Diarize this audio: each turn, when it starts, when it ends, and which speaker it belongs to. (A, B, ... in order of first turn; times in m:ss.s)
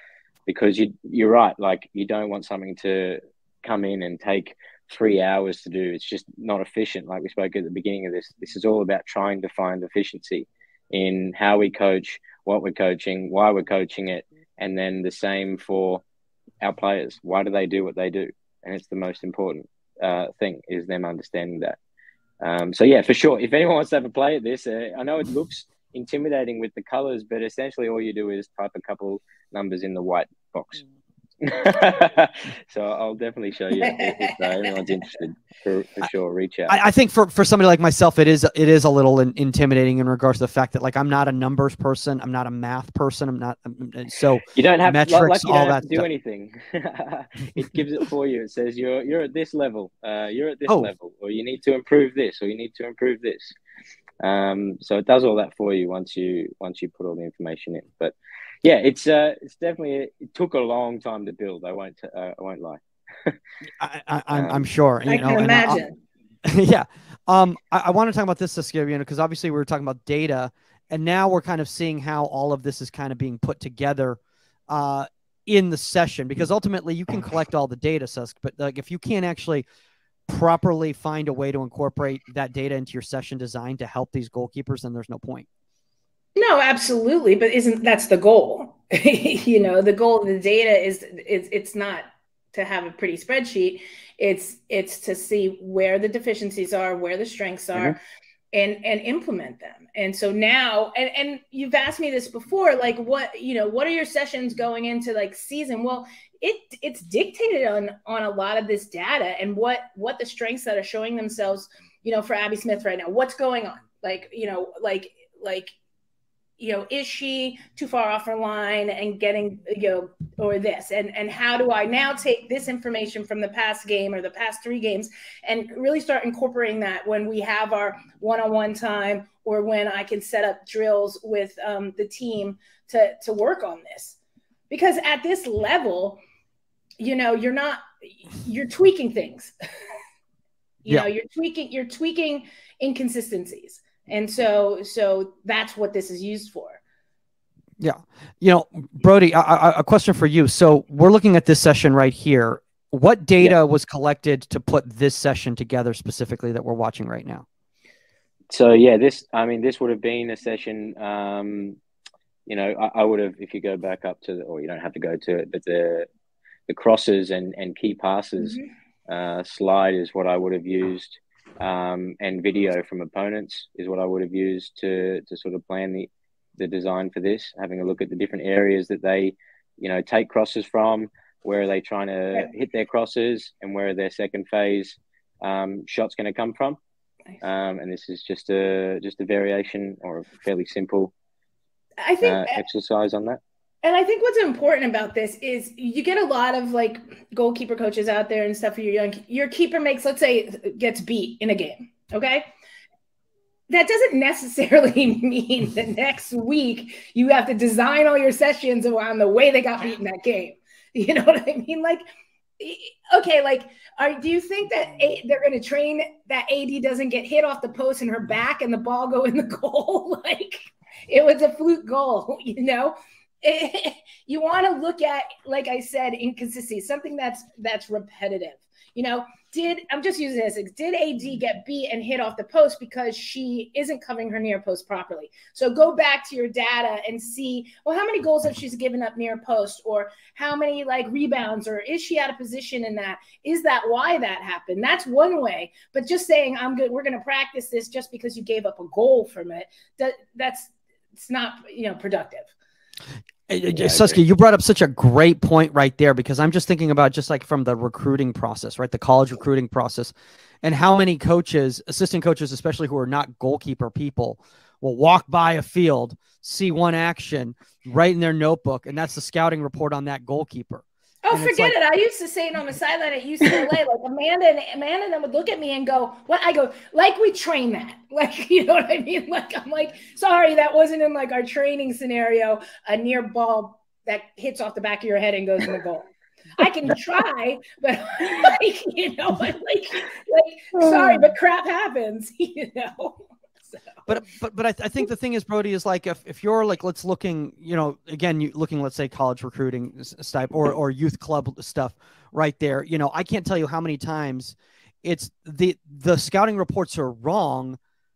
0:00.5-0:16.0 A
0:16.6-0:21.8 A
0:22.4-0:30.9 A
0:31.4-0:36.8 A
0:33.8-0:34.7 B
0:36.7-0:46.1 C
0:44.5-0:53.6 A
0:50.7-0:50.9 C
0:54.2-1:03.4 A
1:03.8-1:05.8 C
1:04.3-1:04.6 A
1:05.1-1:05.9 B
1:06.4-1:19.6 C
1:20.3-1:25.5 C
1:26.4-1:38.0 B
1:38.5-1:55.7 B
1:56.6-2:14.2 B
2:14.7-2:16.2 B
2:17.0-2:19.5 B
2:20.8-2:26.8 B
2:27.8-2:37.4 C
2:38.5-2:41.8 A
2:42.5-2:46.1 A
2:46.7-3:06.8 A
3:07.4-3:11.1 A
3:12.0-3:12.6 B
3:12.2-3:13.4 A
3:13.8-3:22.5 B
3:23.7-3:32.0 B
3:32.6-4:12.5 B
4:13.5-4:31.8 C
4:13.7-4:14.2 A
4:31.2-4:53.8 B
4:54.1-5:07.8 C